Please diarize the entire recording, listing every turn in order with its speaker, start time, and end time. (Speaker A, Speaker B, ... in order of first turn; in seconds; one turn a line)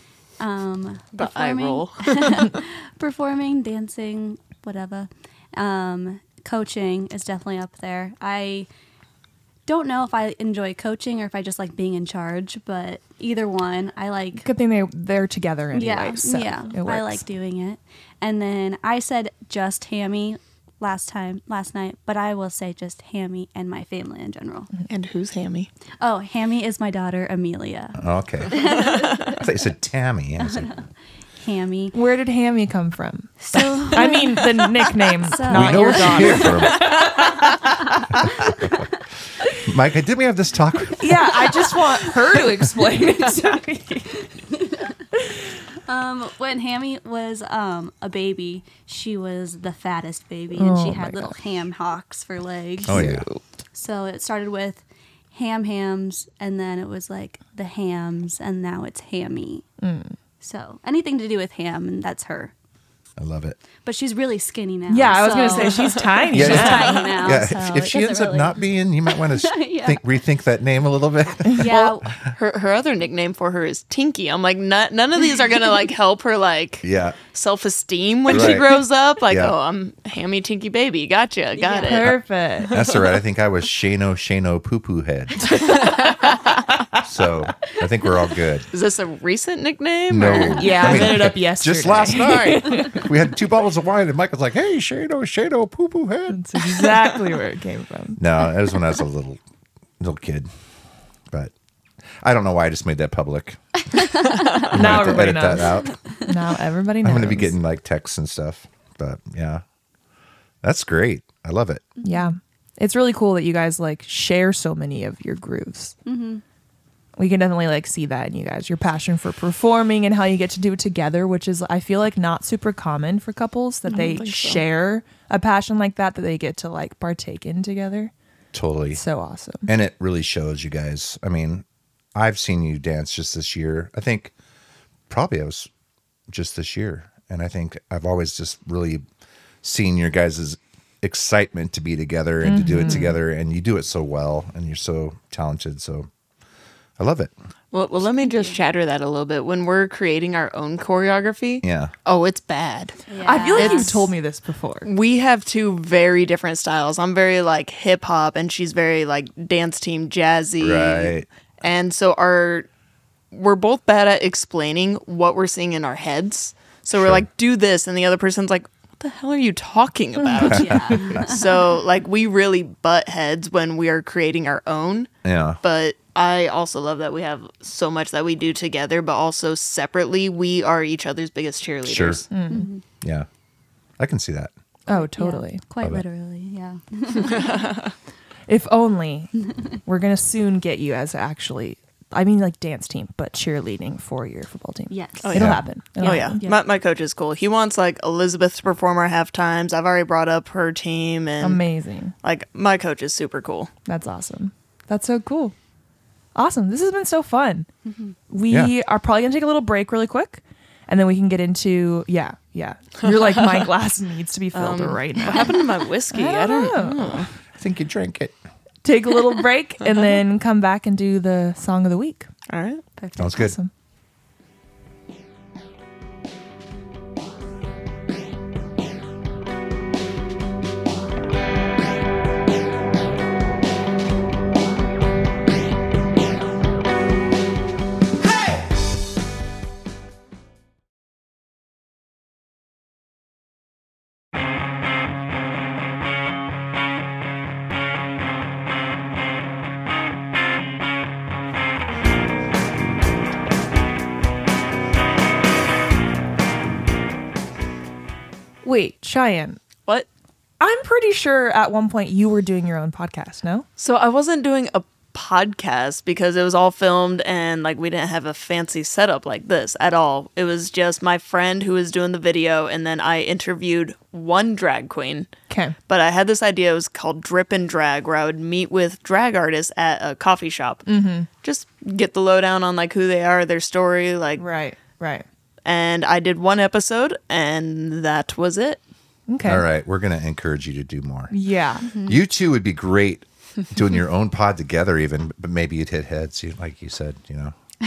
Speaker A: 0.4-8.7
Speaker B: 1.1-2.6
Speaker A: 9.7-14.5
Speaker C: 14.4-17.2
Speaker A: 15.7-24.7
Speaker B: 24.9-25.7
Speaker A: 26.0-29.5
Speaker D: 28.0-28.8
Speaker D: 29.4-30.7
Speaker A: 30.4-30.8
Speaker A: 31.4-31.9
Speaker C: 31.9-37.6
Speaker A: 33.5-36.9
Speaker D: 35.5-37.3
Speaker D: 38.2-38.9
Speaker D: 39.6-41.3
Speaker C: 41.0-44.2
Speaker A: 44.5-44.9
Speaker A: 45.9-53.1
Speaker C: 50.5-51.4
Speaker D: 52.9-53.3
Speaker C: 52.9-53.4
Speaker A: 53.7-59.7
Speaker C: 59.8-60.2
Speaker A: 60.4-62.5
Speaker D: 63.2-63.6
Speaker A: 63.8-70.1
Speaker C: 64.9-67.1
Speaker B: 66.3-67.1
Speaker D: 66.3-71.7
Speaker A: 71.6-72.1
Speaker B: 71.7-82.1
Speaker D: 76.8-77.2
Speaker D: 78.3-79.5
Speaker A: 81.5-82.0
Speaker C: 81.8-82.8
Speaker D: 82.7-85.7
Speaker C: 85.5-86.2
Speaker B: 85.9-86.3
Speaker D: 87.0-88.7
Speaker B: 88.7-91.2
Speaker D: 90.1-96.6
Speaker C: 90.6-93.1
Speaker C: 96.3-98.2
Speaker D: 98.2-99.4
Speaker D: 100.0-100.5
Speaker D: 102.2-103.6
Speaker A: 104.2-104.6
Speaker D: 104.7-106.0
Speaker C: 104.7-107.5
Speaker D: 107.0-109.6
Speaker D: 110.6-111.8
Speaker A: 112.0-112.3
Speaker C: 112.0-116.0
Speaker A: 116.1-116.4
Speaker C: 117.2-128.1
Speaker B: 123.9-124.7
Speaker D: 128.5-129.0
Speaker C: 128.9-129.7
Speaker D: 129.7-131.6
Speaker D: 132.2-134.3
Speaker D: 135.1-135.7
Speaker D: 136.3-139.1
Speaker D: 139.6-146.1
Speaker C: 142.4-143.2
Speaker D: 147.0-147.3
Speaker B: 147.7-153.0
Speaker A: 148.2-148.6
Speaker D: 151.6-151.9
Speaker A: 153.1-153.9
Speaker C: 153.2-154.9
Speaker B: 153.5-154.1
Speaker B: 154.8-162.7
Speaker D: 160.6-161.3
Speaker B: 163.3-182.3
Speaker D: 166.9-167.3
Speaker A: 170.3-171.8
Speaker D: 170.4-171.3
Speaker D: 175.2-175.6
Speaker D: 181.8-182.2
Speaker C: 182.3-182.7
Speaker A: 182.5-182.8
Speaker D: 183.0-183.3
Speaker D: 184.0-184.5
Speaker C: 184.9-185.6
Speaker A: 184.9-187.6
Speaker B: 187.2-187.9
Speaker C: 188.5-196.4
Speaker A: 194.9-195.3
Speaker B: 195.2-201.6
Speaker D: 195.3-195.7
Speaker A: 196.0-196.7
Speaker C: 201.4-202.1
Speaker B: 202.2-203.7
Speaker C: 203.9-205.6
Speaker C: 206.3-207.7
Speaker A: 207.8-208.2
Speaker C: 208.3-215.6
Speaker B: 214.5-217.3
Speaker C: 216.1-217.3
Speaker D: 217.6-218.4
Speaker C: 218.8-222.3
Speaker B: 222.5-222.8
Speaker A: 223.0-223.5
Speaker D: 223.2-223.6
Speaker C: 223.2-223.7
Speaker C: 258.6-259.6
Speaker C: 260.6-263.7
Speaker B: 263.8-275.3
Speaker C: 275.5-275.8
Speaker B: 275.9-280.9
Speaker C: 280.9-281.3
Speaker B: 281.4-284.4
Speaker C: 284.4-285.3
Speaker B: 285.6-288.8
Speaker C: 289.3-289.6
Speaker D: 289.4-291.3
Speaker C: 291.3-291.9
Speaker A: 291.9-292.2
Speaker D: 292.0-297.6